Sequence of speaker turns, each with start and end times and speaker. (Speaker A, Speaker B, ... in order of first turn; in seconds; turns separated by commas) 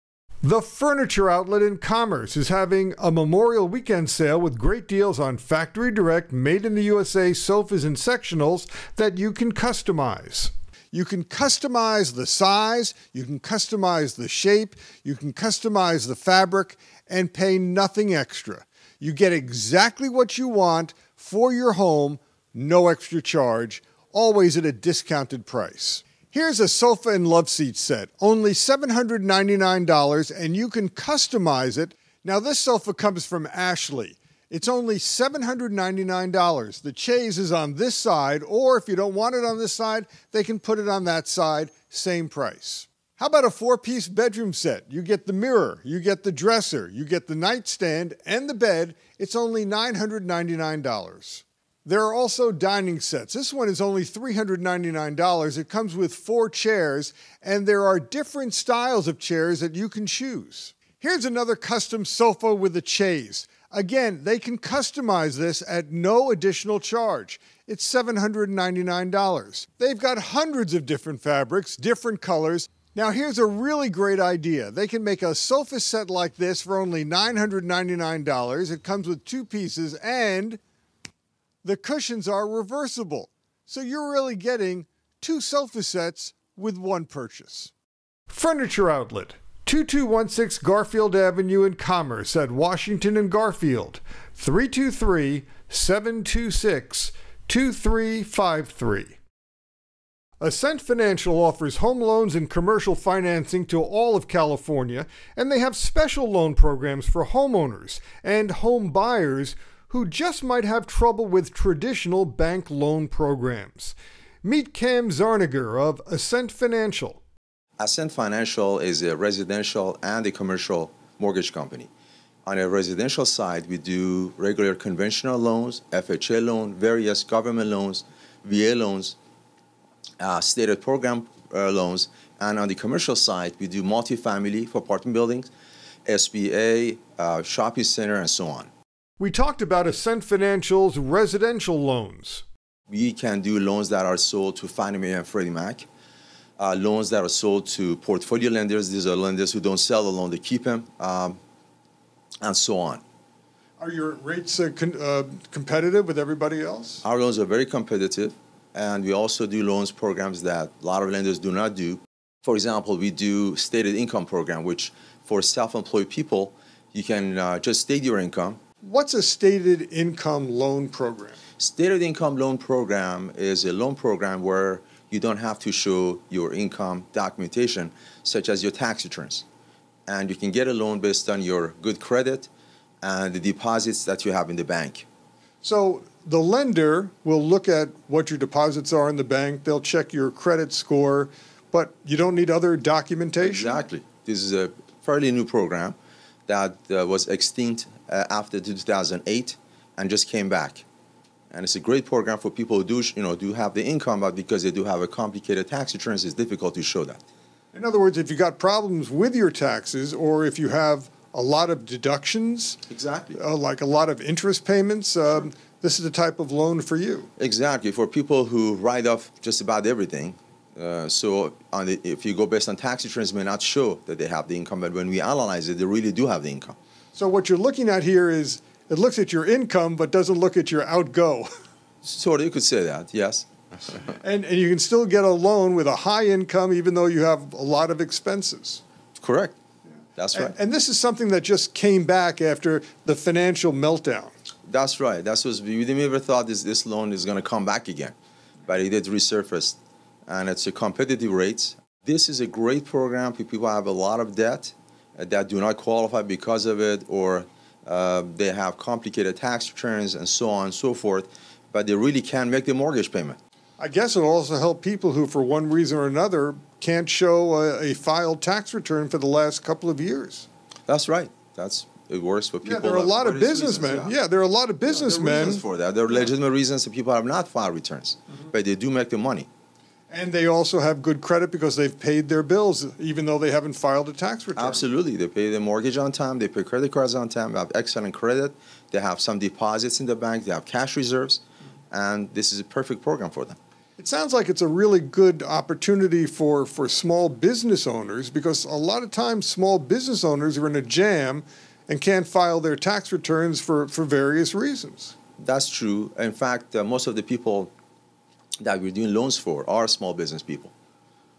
Speaker A: 0.4-80.6, Speaker A: 81.6-87.7, Speaker A: 88.3-99.2, Speaker A: 100.4-117.2, Speaker B: 117.8-121.9, Speaker B: 122.5-129.2, Speaker B: 130.2-135.5, Speaker B: 136.1-138.7, Speaker A: 139.2-142.4, Speaker B: 142.9-145.9, Speaker B: 146.6-151.4, Speaker B: 152.4-153.0, Speaker A: 153.8-157.0, Speaker B: 157.0-168.6, Speaker A: 168.8-171.4, Speaker B: 171.6-179.4, Speaker B: 180.1-182.5, Speaker B: 183.0-185.1, Speaker A: 185.6-193.8, Speaker B: 193.4-200.8, Speaker B: 201.5-207.2, Speaker A: 207.7-212.8, Speaker B: 212.9-213.4, Speaker A: 213.4-217.3, Speaker B: 217.4-226.8, Speaker A: 227.2-231.5, Speaker B: 232.0-233.5, Speaker A: 234.2-238.8, Speaker B: 239.2-239.6, Speaker B: 240.2-240.5, Speaker A: 240.3-244.3, Speaker B: 244.7-248.2, Speaker B: 248.7-263.4, Speaker A: 263.8-270.5, Speaker B: 270.9-274.1, Speaker A: 272.6-275.6, Speaker B: 274.9-279.5, Speaker A: 280.1-284.8, Speaker B: 284.6-293.6, Speaker A: 294.0-305.1, Speaker B: 305.4-307.7, Speaker B: 308.6-310.7